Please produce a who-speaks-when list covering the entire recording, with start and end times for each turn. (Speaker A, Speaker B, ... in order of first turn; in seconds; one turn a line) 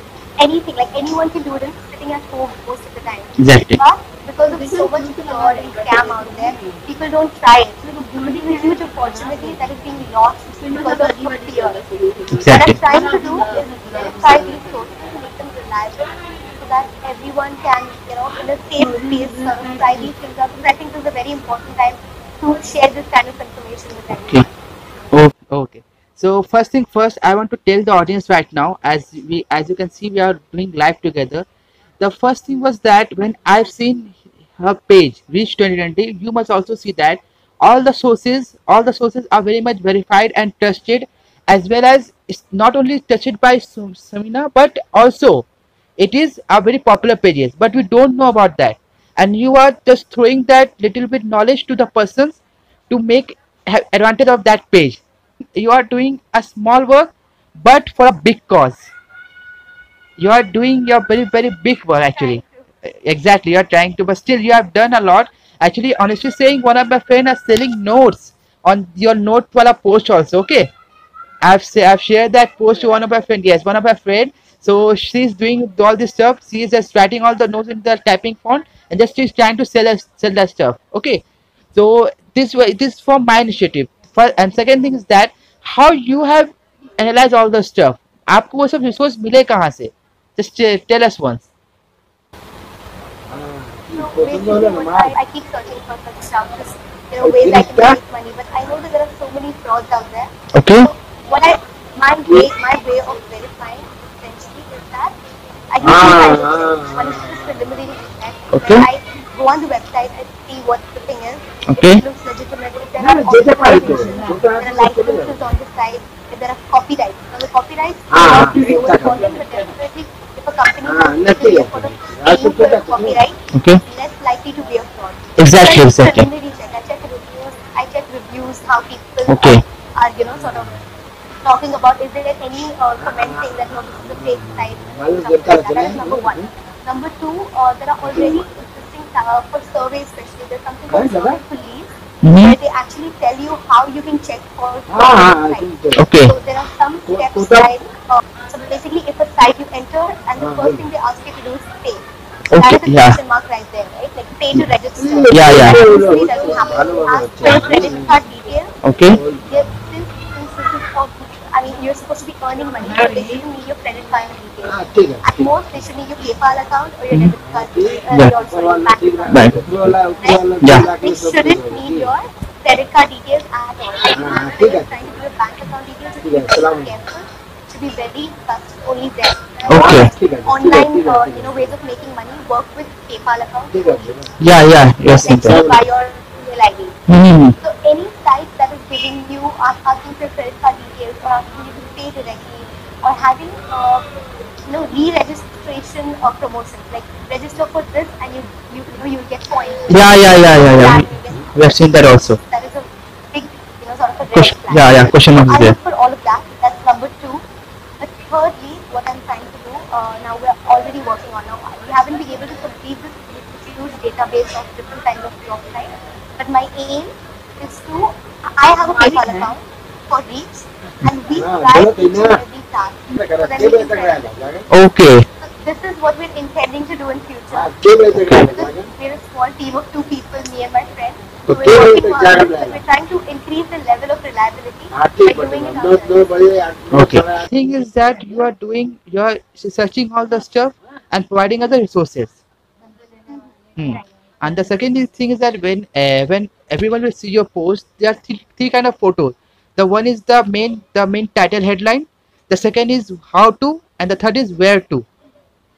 Speaker A: 0.4-11.8
Speaker B: 3.4-3.8
Speaker B: 12.3-12.8
Speaker A: 12.5-24.5
Speaker B: 25.1-31.5
Speaker B: 32.0-45.5
Speaker B: 46.0-52.4
Speaker B: 52.9-55.0
Speaker B: 55.6-58.9
Speaker B: 60.2-70.7
Speaker A: 62.1-62.6
Speaker B: 71.4-81.2
Speaker B: 81.8-91.5
Speaker C: 93.3-95.1
Speaker A: 93.9-105.2
Speaker C: 97.2-98.0
Speaker B: 100.5-100.9
Speaker A: 105.7-130.7
Speaker C: 105.8-107.7
Speaker B: 108.5-108.9
Speaker B: 111.7-112.0
Speaker C: 113.0-115.3
Speaker C: 118.1-119.3
Speaker C: 120.8-123.2
Speaker B: 123.5-123.8
Speaker B: 125.4-126.3
Speaker B: 129.3-129.6
Speaker C: 130.4-130.8
Speaker A: 131.4-158.8
Speaker C: 133.0-136.5
Speaker C: 138.1-138.4
Speaker C: 140.9-141.4
Speaker B: 142.2-142.6
Speaker C: 144.9-146.1
Speaker B: 146.0-146.3
Speaker C: 147.1-147.7
Speaker C: 150.4-150.8
Speaker B: 152.5-153.2
Speaker C: 155.0-158.1
Speaker B: 155.3-155.8
Speaker B: 158.8-159.2
Speaker C: 159.1-159.6
Speaker A: 159.5-169.7
Speaker C: 164.7-165.4
Speaker C: 167.5-172.1
Speaker B: 169.3-169.9
Speaker A: 170.2-184.2
Speaker C: 174.1-175.0
Speaker C: 176.2-176.9
Speaker B: 179.7-180.1
Speaker C: 179.7-181.7
Speaker C: 183.7-184.4
Speaker B: 184.4-185.6
Speaker A: 185.1-187.0
Speaker C: 185.2-185.8
Speaker B: 187.1-187.6
Speaker A: 187.6-194.1
Speaker A: 194.7-207.4
Speaker B: 199.9-202.4
Speaker B: 204.3-205.8
Speaker A: 208.0-224.3
Speaker C: 221.3-222.4
Speaker C: 223.2-224.7
Speaker B: 224.7-225.3
Speaker A: 225.4-236.3
Speaker C: 227.5-228.9
Speaker B: 228.2-228.4
Speaker B: 231.5-231.8
Speaker C: 231.5-232.8
Speaker C: 234.9-237.5
Speaker B: 236.9-242.4
Speaker B: 243.8-255.1